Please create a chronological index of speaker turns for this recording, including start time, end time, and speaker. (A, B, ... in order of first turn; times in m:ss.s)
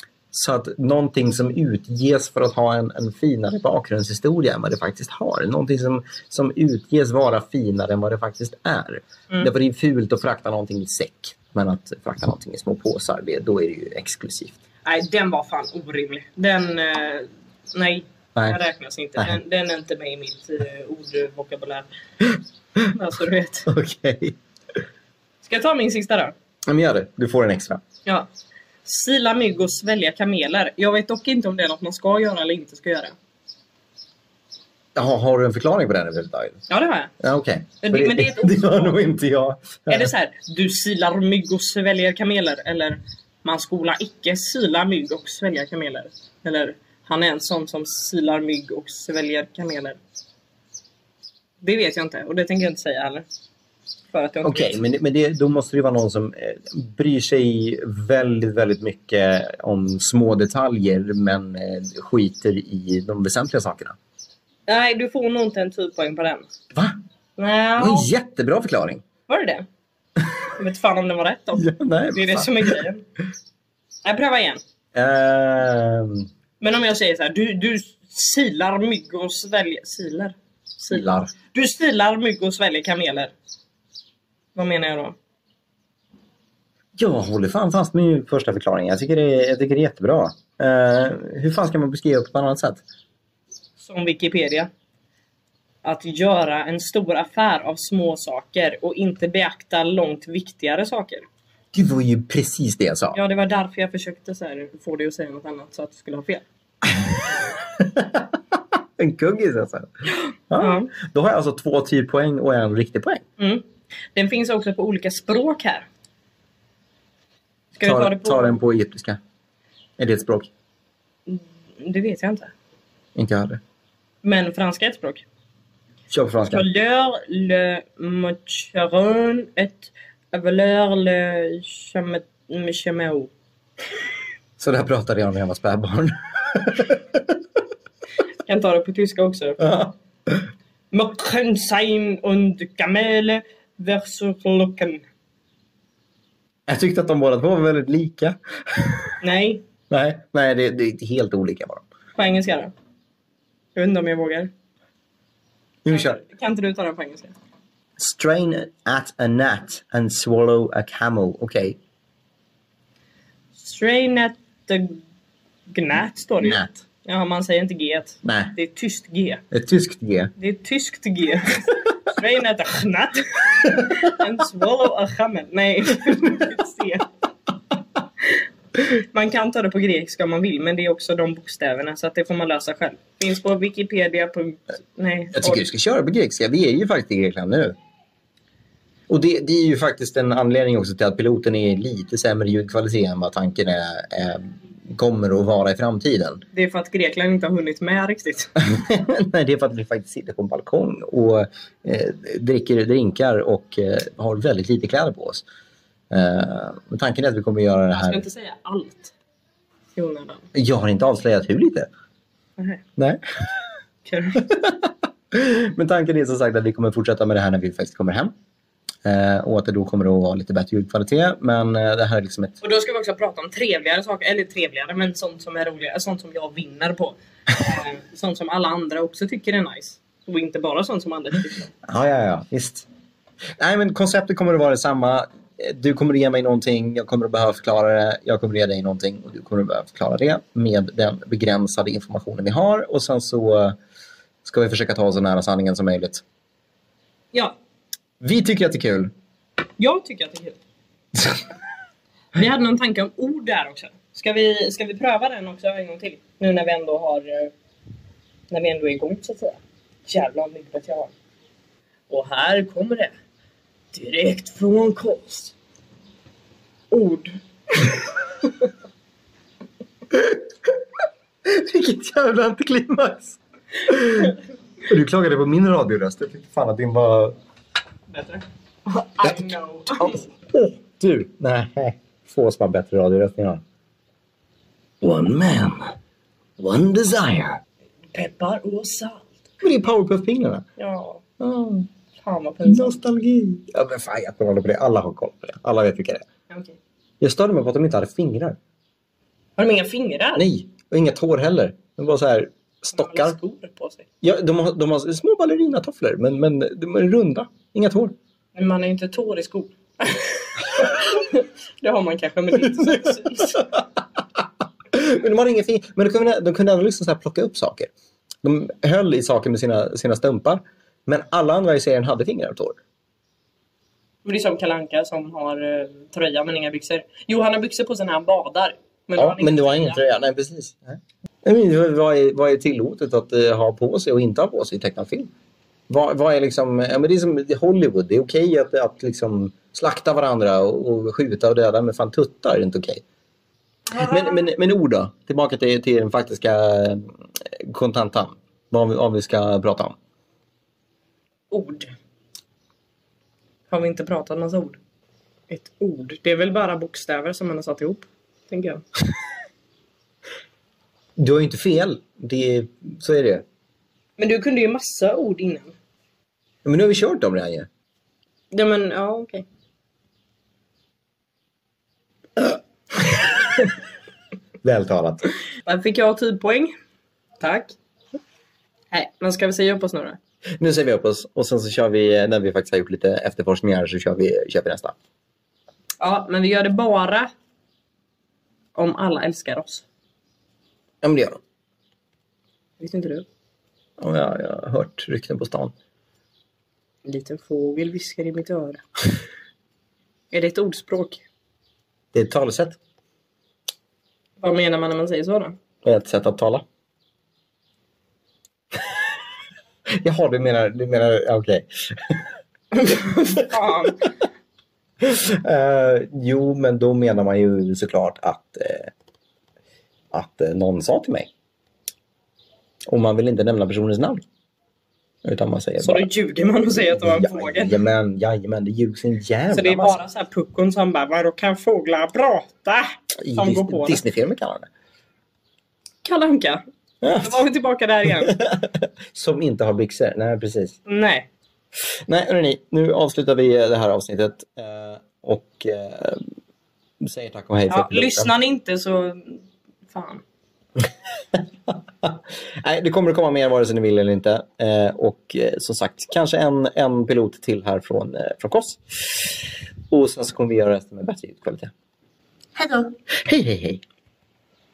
0:00.3-0:14.6 A
0:14.8-0:21.9 B
0:22.8-0:23.7 B
0:23.7-0:24.4 A
0:25.4-0:26.3 B
0:26.7-0:27.8 A
0:28.8-0:33.2 B
0:35.0-0:36.6 A
0:36.7-0:37.1 B
0:37.2-0:40.1 A
0:37.8-0:39.0 B
0:39.9-0:50.0 B
0:51.6-0:53.2 B
0:54.1-0:54.8 B
0:54.4-1:04.0 A
1:04.7-1:06.5 B
1:07.4-1:08.1 B
1:07.8-1:09.0 A
1:09.3-1:09.7 B
1:10.6-1:13.0 B
1:11.5-1:12.8 A
1:14.0-1:14.6 B
1:14.9-1:16.3 A
1:16.6-1:23.3 B
1:20.9-1:21.3 A
1:24.5-1:25.2 B
1:27.0-1:32.8 A
1:33.8-1:34.7 B
1:35.8-1:41.2 B
1:41.7-1:43.2 A
1:43.1-1:46.4 B
1:47.7-1:49.9 A
1:50.5-1:53.2 A
1:50.6-1:50.9 B
1:53.4-1:55.9 B
1:57.8-1:58.6 B
1:57.8-1:59.2 A
2:00.0-2:00.5 A
2:01.3-2:02.5 B
2:03.2-2:03.6 A
2:04.2-2:05.2 B
2:06.1-2:06.6 A
2:06.5-2:13.3 B
2:14.6-2:17.4 A
2:18.4-2:19.6 B
2:19.6-2:20.5 A
2:20.9-2:25.0 B
2:26.7-2:29.2 A
2:29.2-2:29.6 B
2:29.9-2:31.8 A
2:32.2-2:32.7 B
2:33.8-2:34.5 B
2:35.8-2:36.2 A
2:35.9-2:37.3 B
2:38.0-2:41.8 A
2:43.6-2:45.0 B
2:45.7-2:49.4 B
2:46.4-2:46.8 A
2:48.2-2:48.6 A
2:49.5-2:50.3 A
2:50.4-2:57.1 B
2:58.8-3:05.6 B
3:05.3-3:07.8 A
3:09.1-3:16.4 A
3:16.5-3:18.5 B
3:18.6-3:25.4 A
3:26.1-3:28.2 A
3:28.0-3:29.1 B
3:30.0-3:30.5 B
3:30.5-3:31.9 A
3:33.0-3:33.2 A
3:34.0-3:34.4 B
3:34.4-3:38.3 A
3:39.0-3:42.6 A
3:42.6-3:51.7 B
3:51.8-3:52.9 A
3:53.6-4:03.8 A
4:04.4-4:06.2 A
4:08.2-4:09.1 A
4:09.8-4:10.6 B
4:11.2-4:11.4 A
4:12.3-4:17.5 B
4:18.5-4:21.1 B
4:22.1-4:23.1 B
4:23.9-4:25.5 B
4:26.9-4:28.0 B
4:30.1-4:30.8 A
4:31.4-4:37.4 A
4:38.1-4:40.2 B
4:39.2-4:43.6 A
4:45.0-4:46.0 A
4:46.6-4:47.6 A
4:48.1-4:49.4 B
4:49.6-4:50.6 A
4:50.8-4:51.2 B
4:51.4-4:51.9 A
4:52.2-4:53.0 B
4:52.6-4:56.2 A
4:56.5-4:56.8 B
4:57.2-4:58.6 A
4:59.6-5:00.4 B
5:00.4-5:03.4 A
5:02.9-5:04.1 B
5:04.2-5:08.2 A
5:08.5-5:13.6 B
5:12.7-5:13.8 A
5:14.4-5:17.9 A
5:18.4-5:22.8 A
5:24.2-5:30.0 B
5:29.2-5:35.3 A
5:35.9-5:43.0 A
5:43.9-5:44.5 B
5:43.9-5:50.0 A
5:51.5-5:51.9 B
5:53.7-5:54.8 B
5:55.5-5:58.8 B
6:01.2-6:03.4 A
6:04.2-6:05.8 B
6:06.6-6:07.7 A
6:08.5-6:09.4 B
6:14.6-6:15.2 A
6:15.6-6:16.7 B
6:17.4-6:17.7 B
6:18.9-6:20.2 B
6:20.6-6:25.0 A
6:26.0-6:27.3 B
6:28.8-6:29.8 B
6:31.0-6:31.4 A
6:32.8-6:33.2 B
6:34.0-6:35.7 A
6:37.0-6:38.8 B
6:40.3-6:41.2 B
6:42.1-6:42.8 A
6:44.4-6:45.6 B
6:45.8-6:46.6 A
6:50.0-6:52.3 A
6:52.7-6:54.0 B
6:55.0-6:58.9 A
7:00.1-7:01.3 A
7:02.9-7:04.2 A
7:05.2-7:06.1 A
7:05.8-7:07.8 B
7:06.7-7:10.0 A
7:09.5-7:14.0 B
7:13.2-7:14.7 A
7:16.0-7:16.6 B
7:17.0-7:17.4 A
7:17.2-7:18.4 B
7:18.2-7:20.8 A
7:20.9-7:21.3 B
7:22.1-7:26.2 A
7:27.0-7:28.3 A
7:27.7-7:30.2 B
7:31.3-7:41.7 A
7:42.6-7:43.8 A